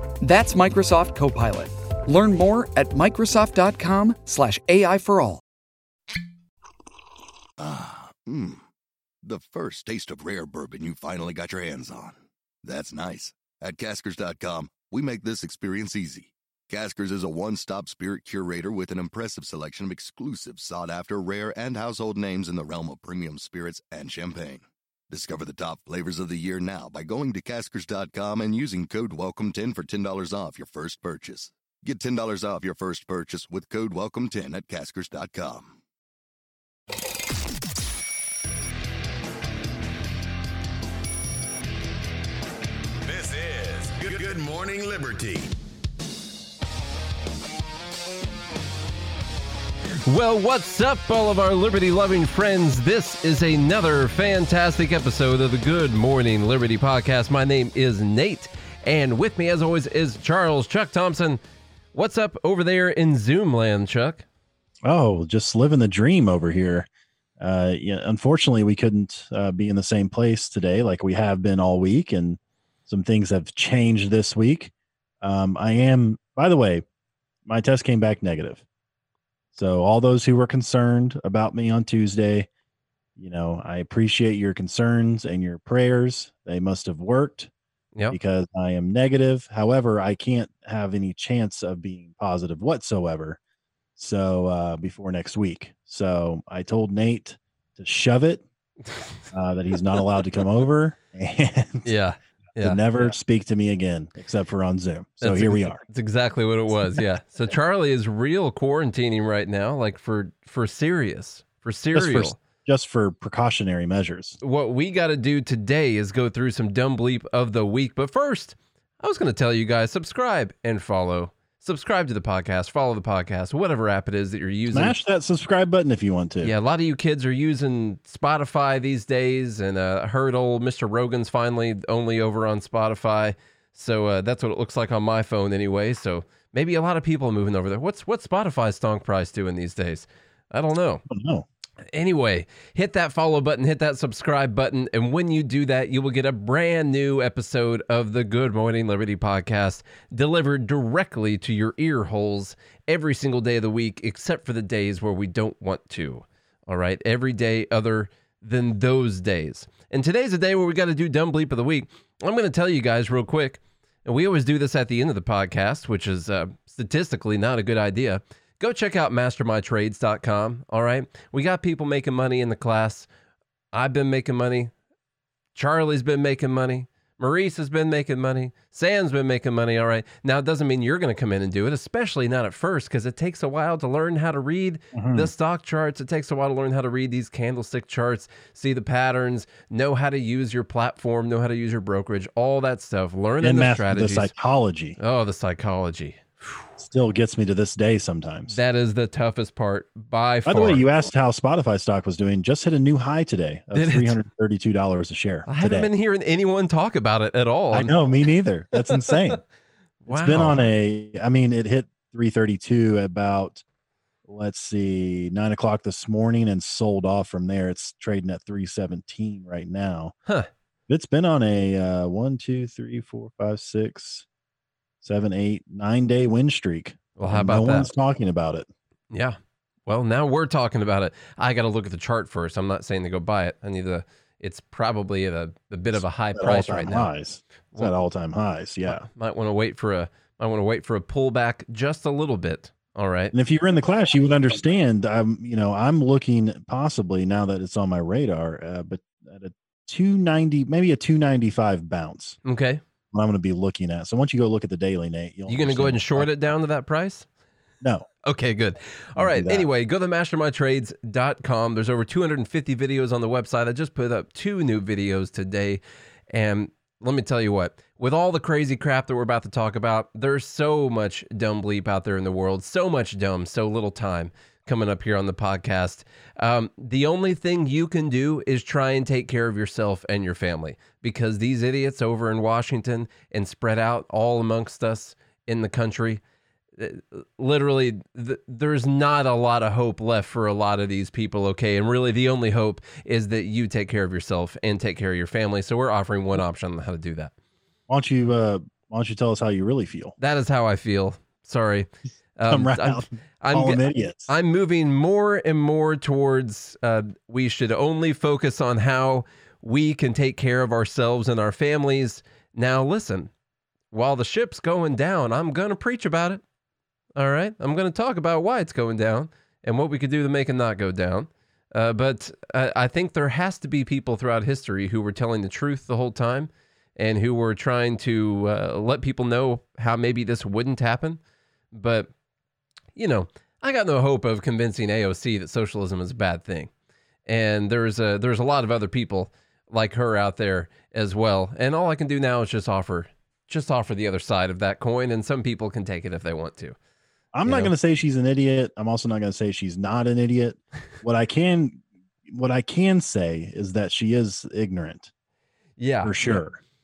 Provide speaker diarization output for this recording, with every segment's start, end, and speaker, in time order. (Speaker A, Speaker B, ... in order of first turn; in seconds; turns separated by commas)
Speaker A: 0.2-5.4, Speaker B: 7.6-8.6, Speaker B: 9.2-35.8, Speaker C: 43.0-45.5, Speaker D: 50.0-61.4, Speaker D: 61.9-64.2, Speaker E: 64.8-66.9, Speaker E: 67.4-76.8, Speaker E: 77.5-78.6, Speaker E: 79.5-82.5, Speaker E: 83.2-87.5, Speaker E: 88.1-93.4, Speaker E: 94.0-98.4, Speaker E: 99.3-101.9, Speaker D: 101.8-103.1, Speaker E: 102.6-105.8, Speaker D: 105.2-112.3, Speaker E: 111.9-114.4, Speaker D: 114.4-125.0, Speaker E: 124.7-126.5, Speaker D: 126.4-141.0, Speaker E: 141.1-141.4, Speaker D: 141.9-173.1, Speaker D: 173.7-174.7, Speaker D: 175.5-194.3, Speaker E: 184.9-185.3, Speaker E: 193.4-195.0, Speaker D: 195.0-196.7, Speaker E: 196.8-198.6, Speaker D: 198.5-200.8, Speaker E: 200.4-205.9, Speaker D: 203.7-204.2, Speaker D: 205.5-207.9, Speaker E: 207.7-209.4, Speaker D: 208.8-209.2, Speaker D: 210.0-210.7, Speaker E: 210.1-213.6, Speaker E: 214.3-220.1, Speaker E: 220.9-224.2, Speaker E: 225.0-228.7, Speaker D: 227.2-227.9, Speaker D: 229.1-237.1, Speaker E: 236.3-239.0, Speaker D: 238.9-243.3, Speaker E: 243.3-252.4, Speaker D: 252.4-252.8, Speaker E: 253.1-256.3, Speaker D: 255.5-257.3, Speaker E: 257.8-258.1, Speaker D: 258.2-265.8, Speaker E: 259.2-259.7, Speaker D: 266.3-286.2, Speaker D: 286.8-297.3, Speaker E: 297.9-300.1, Speaker D: 300.2-313.3, Speaker E: 302.5-304.3, Speaker D: 313.9-316.4, Speaker D: 317.1-331.2, Speaker D: 331.7-332.1, Speaker D: 332.9-336.7, Speaker D: 337.2-346.8, Speaker E: 347.3-355.1, Speaker D: 347.4-347.7, Speaker D: 355.8-356.1, Speaker E: 356.0-356.6